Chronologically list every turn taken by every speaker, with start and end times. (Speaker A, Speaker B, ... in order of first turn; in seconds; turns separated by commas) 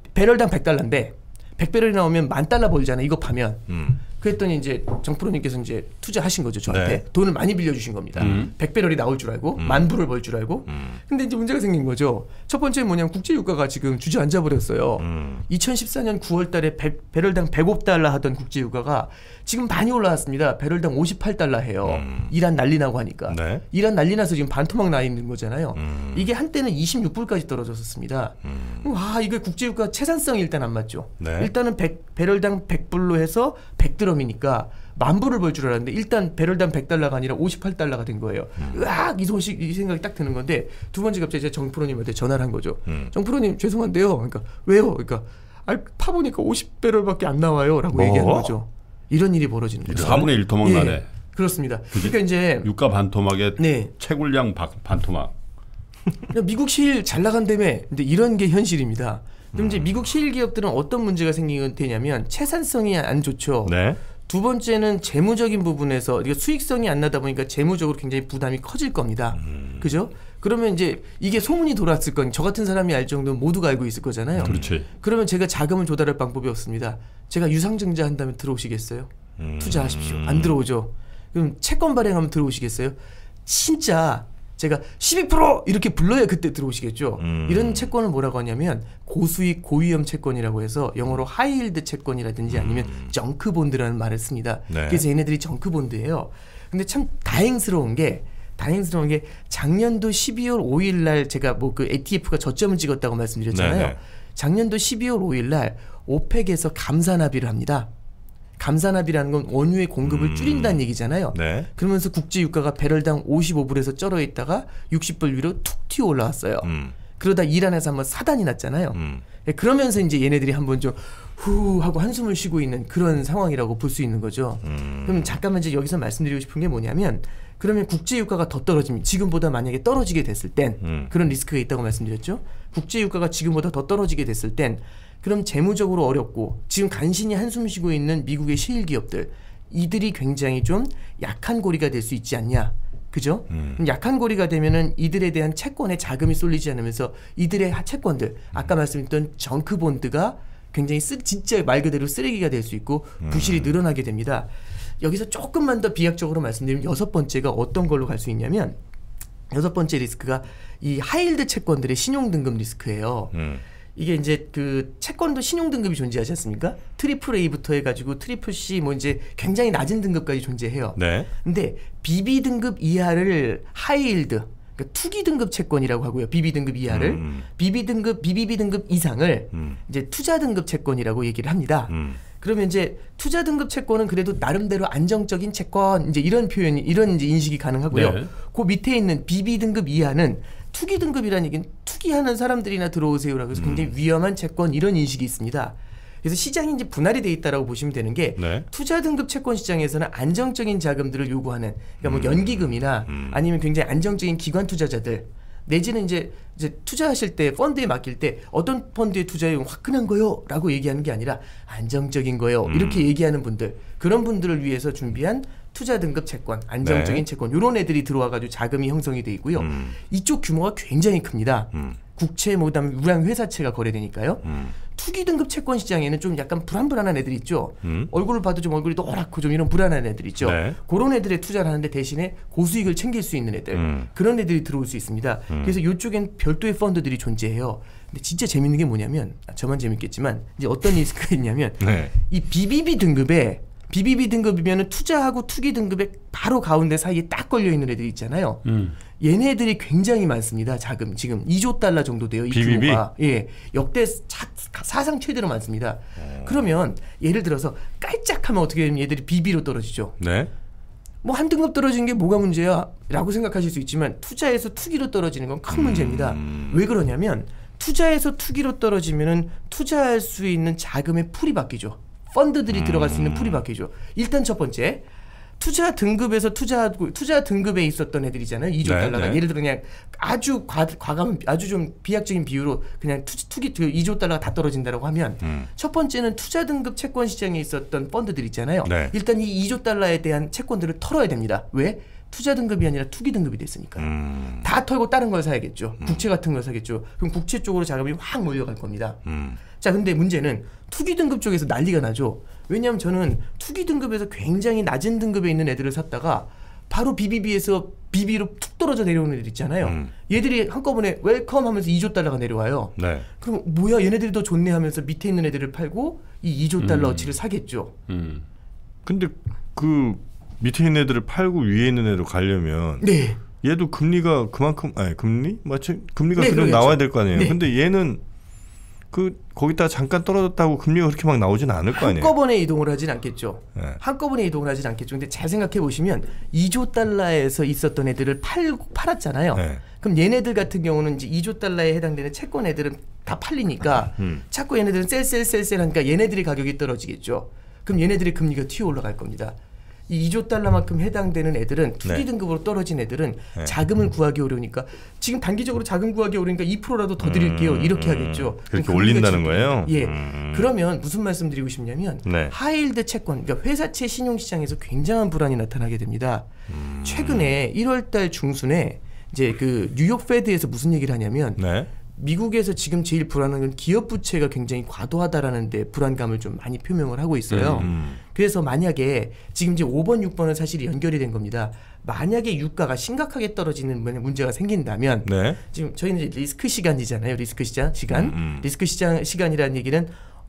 Speaker A: 0.1-52.7, Speaker B: 3.7-4.0, Speaker B: 6.7-7.0, Speaker B: 8.2-8.4, Speaker C: 8.2-8.5, Speaker B: 9.6-9.9, Speaker B: 10.7-11.0, Speaker B: 15.0-15.5, Speaker B: 21.8-22.3, Speaker B: 23.3-23.6, Speaker B: 25.8-26.2, Speaker B: 28.4-28.9, Speaker B: 31.2-31.5, Speaker B: 47.9-48.5, Speaker C: 49.9-51.1, Speaker C: 51.9-55.3, Speaker A: 53.6-53.9, Speaker A: 56.3-107.9, Speaker B: 59.5-60.0, Speaker B: 63.6-64.0, Speaker B: 69.4-69.9, Speaker B: 74.3-74.7, Speaker C: 74.4-74.9, Speaker B: 79.4-80.6, Speaker B: 87.2-87.9, Speaker B: 92.5-93.1, Speaker B: 94.7-95.0, Speaker B: 103.5-104.0, Speaker A: 108.6-158.8, Speaker B: 110.0-111.7, Speaker B: 116.6-117.0, Speaker B: 118.9-119.2, Speaker B: 124.6-125.4, Speaker B: 130.8-131.1, Speaker B: 143.5-143.8, Speaker B: 153.2-153.7, Speaker A: 159.5-163.3, Speaker B: 163.3-163.6, Speaker A: 164.0-248.6, Speaker B: 171.0-171.3, Speaker B: 176.9-177.5, Speaker B: 181.9-182.2, Speaker C: 187.9-188.3, Speaker B: 193.6-193.9, Speaker B: 198.4-198.7, Speaker B: 202.0-203.4, Speaker B: 212.7-213.1, Speaker B: 216.8-217.2, Speaker B: 219.6-220.0, Speaker B: 224.4-224.8, Speaker B: 227.8-228.1, Speaker B: 230.4-230.8, Speaker B: 233.7-234.1, Speaker B: 241.8-242.1, Speaker C: 248.7-248.9, Speaker A: 249.2-260.2, Speaker B: 252.5-253.1, Speaker B: 256.2-256.6, Speaker B: 260.2-260.5, Speaker A: 261.2-275.0, Speaker B: 265.7-266.8, Speaker B: 272.7-273.6, Speaker A: 275.6-317.9, Speaker B: 278.8-279.4, Speaker B: 285.4-285.7, Speaker B: 288.8-289.1, Speaker B: 294.0-294.7, Speaker B: 299.3-299.6, Speaker B: 309.8-310.1, Speaker B: 313.0-313.3, Speaker C: 316.8-317.4, Speaker C: 318.1-318.4, Speaker B: 319.1-323.1, Speaker A: 323.0-323.4, Speaker B: 323.6-328.2, Speaker A: 326.4-327.6, Speaker B: 329.1-332.3, Speaker A: 331.9-349.6, Speaker B: 339.6-339.8, Speaker A: 350.1-366.5, Speaker B: 357.2-360.7, Speaker B: 362.3-362.5, Speaker B: 366.7-367.5, Speaker A: 367.0-390.1, Speaker B: 371.6-371.9, Speaker C: 377.5-377.9, Speaker B: 377.6-378.2, Speaker B: 385.2-385.6, Speaker B: 388.1-388.7